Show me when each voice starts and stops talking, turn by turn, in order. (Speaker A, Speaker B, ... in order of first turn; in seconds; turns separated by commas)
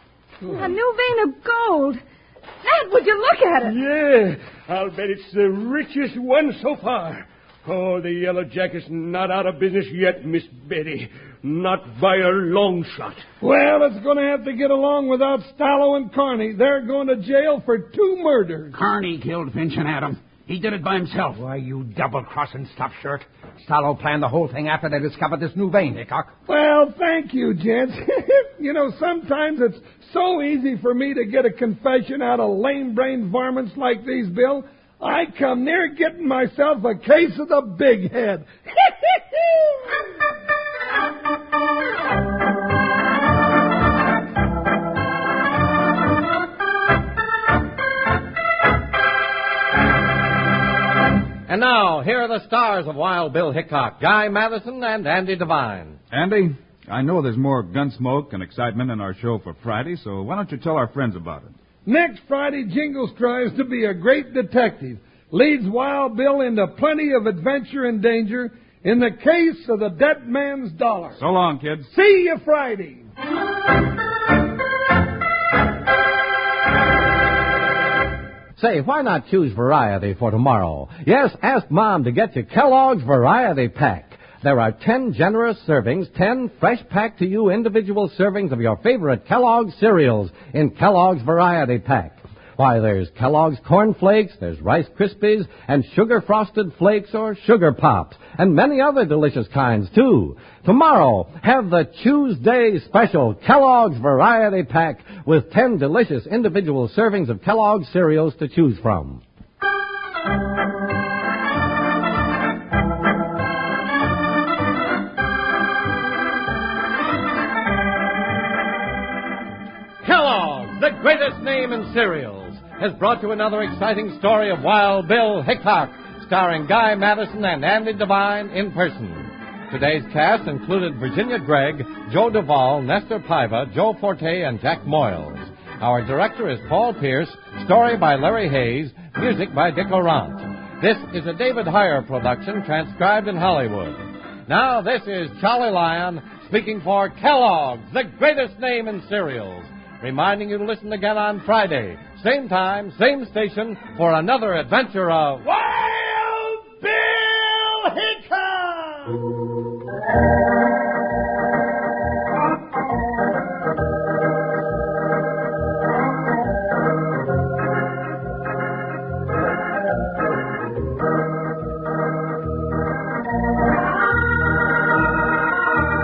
Speaker A: 0.4-2.0, Speaker A: 2.6-3.7, Speaker B: 3.6-13.2, Speaker C: 13.4-18.7, Speaker D: 18.7-21.4, Speaker E: 21.4-26.3, Speaker C: 26.5-39.4, Speaker F: 51.5-56.0, Speaker G: 56.1-61.5, Speaker C: 61.9-71.2, Speaker G: 71.2-71.9, Speaker C: 71.9-73.0, Speaker F: 78.6-109.2, Speaker F: 120.0-155.4